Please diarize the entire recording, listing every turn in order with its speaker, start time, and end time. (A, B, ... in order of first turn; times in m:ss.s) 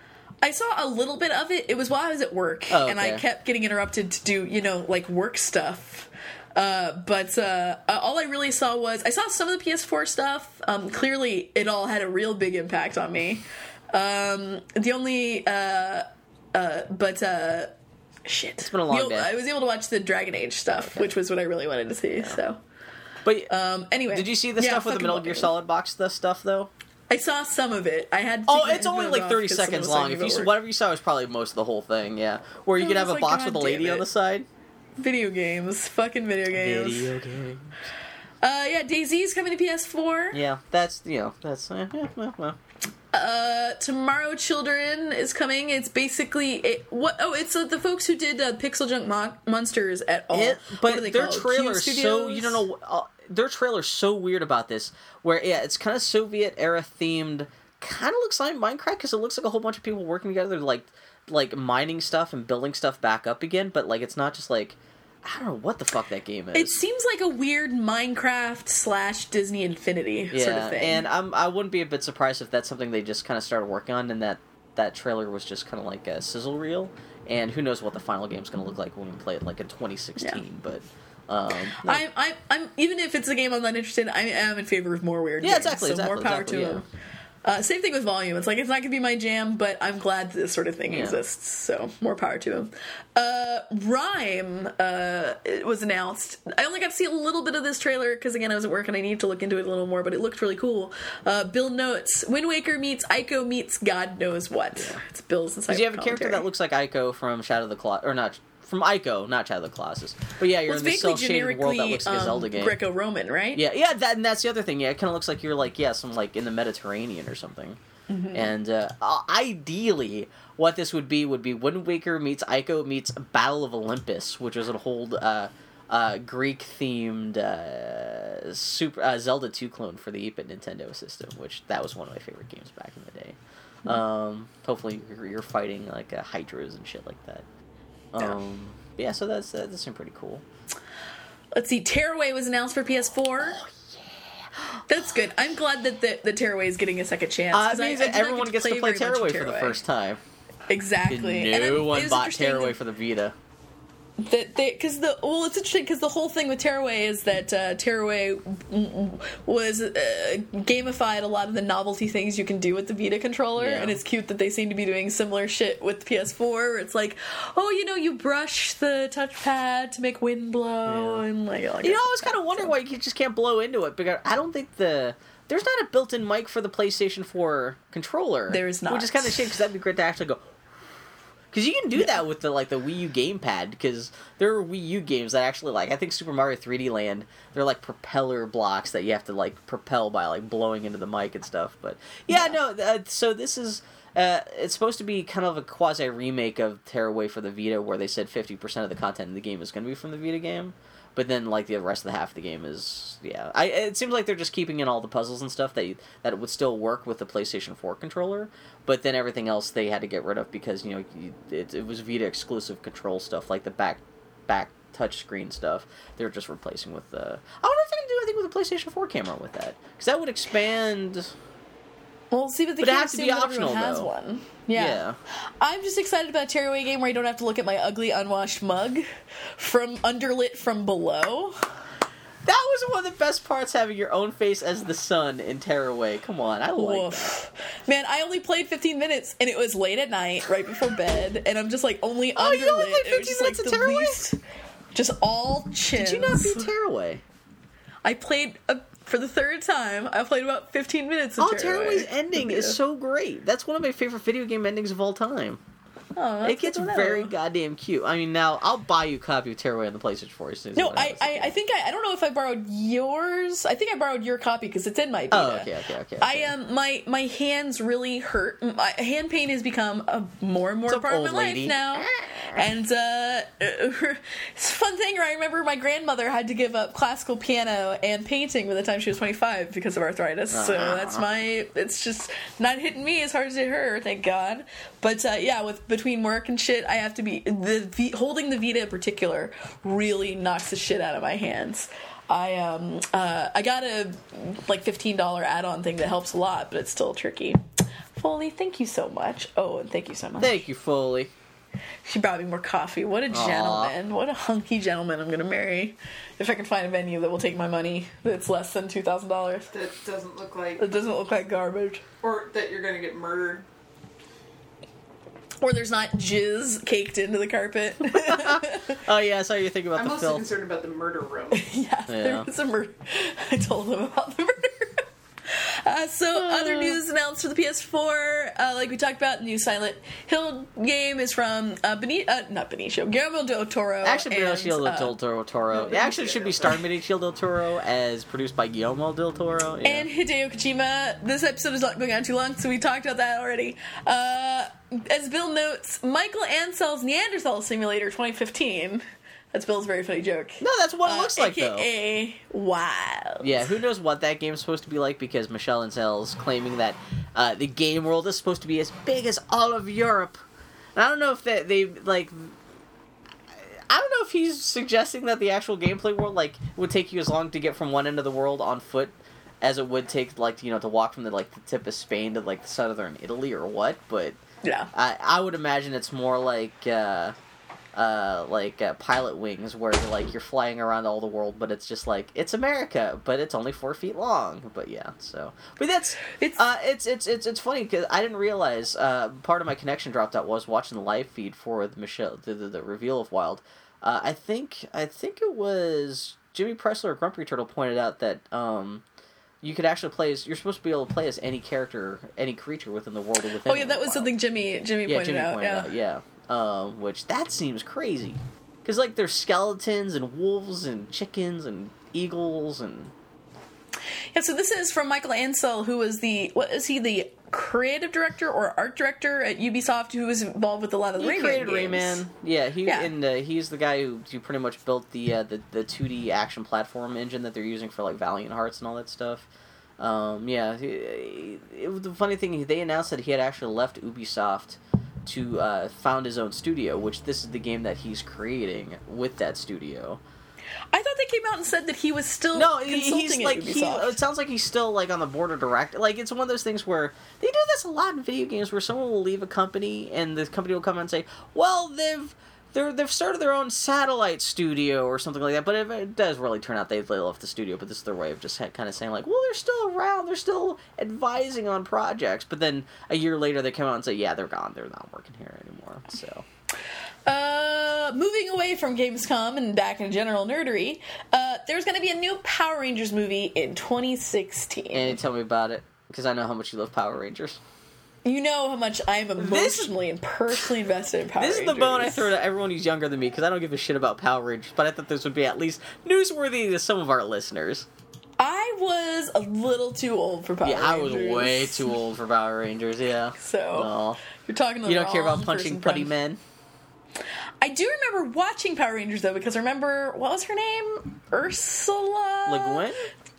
0:00.4-0:17.7 A
0:02.7-0:03.2 B
0:18.2-0:22.6 A
0:18.6-0:19.3 B
0:20.8-0:21.2 B
0:23.2-0:23.5 B
0:23.5-0:25.5 A
0:24.1-0:26.7 B
0:27.1-0:30.5 A
0:28.5-0:34.5 B
0:32.8-0:34.0 A
0:35.0-0:37.1 A
0:36.5-0:37.8 B
0:38.4-0:40.4 A
0:40.3-0:42.6 B
0:43.1-0:52.6 A
0:50.3-1:06.8 B
1:06.5-1:11.0 A
1:10.3-1:22.0 B
1:20.2-1:20.4 A
1:21.7-1:26.8 A
1:25.4-1:26.8 B
1:27.4-1:46.4 A
1:30.9-1:31.2 B
1:44.7-1:45.0 B
1:45.7-1:52.8 B
1:50.7-1:53.6 A
1:53.5-1:57.8 B
1:58.1-1:58.5 A
1:58.3-2:17.4 B
2:18.1-2:20.4 B
2:21.5-2:23.6 A
2:23.4-2:25.0 B
2:24.9-2:29.8 A
2:27.5-2:30.2 B
2:30.7-2:32.8 A
2:31.1-2:33.3 B
2:34.2-2:52.7 A
2:43.6-2:44.0 B
2:50.9-2:51.2 B
2:51.8-3:00.4 B
2:58.5-2:59.5 A
3:01.5-3:41.3 B
3:12.3-3:12.6 A
3:42.3-3:45.0 A
3:42.8-3:44.1 B
3:44.7-3:45.2 B
3:45.6-3:49.0 A
3:49.6-3:51.6 A
3:52.4-3:57.3 B
3:56.7-4:04.4 A
4:02.4-4:04.2 B
4:04.9-4:06.7 A
4:05.9-4:07.2 B
4:08.0-4:12.8 A
4:11.4-4:15.6 B
4:16.2-4:17.3 A
4:16.4-4:21.5 B
4:20.8-4:57.6 A
4:25.3-4:26.5 B
4:30.9-4:32.6 B
4:40.5-4:41.2 B
4:58.1-5:00.6 A
5:00.4-5:01.3 B
5:02.0-5:09.7 A
5:03.3-5:03.9 B
5:09.7-5:11.0 C
5:10.8-5:12.0 A
5:12.2-5:13.6 C
5:15.6-5:19.0 A
5:18.0-5:20.5 B
5:19.9-5:21.7 C
5:21.5-5:35.1 A
5:22.1-5:22.5 B
5:26.3-5:27.0 B
5:34.0-5:40.1 B
5:35.7-5:36.8 A
5:39.8-5:53.7 A
5:50.6-5:51.9 B
5:53.4-6:00.4 B
6:00.9-6:02.6 B
6:03.7-6:14.4 B
6:14.6-6:14.9 A
6:14.9-6:17.3 B
6:17.9-6:39.0 B
6:26.3-6:26.6 A
6:39.6-6:44.4 B
6:43.6-6:45.9 A
6:45.0-6:53.1 B
6:54.3-7:02.2 A
7:01.2-7:09.5 B
7:02.8-7:03.1 A
7:10.0-7:20.2 B
7:20.9-7:24.2 A
7:22.5-7:46.4 B
7:47.2-7:55.2 A
7:54.9-7:57.6 B
7:58.2-8:02.3 A
7:59.4-7:59.9 B
8:01.3-8:07.9 B
8:08.4-8:11.9 A
8:10.6-8:14.2 B
8:13.4-8:16.1 A
8:14.8-8:16.4 B
8:17.6-8:22.8 A
8:22.4-8:23.1 B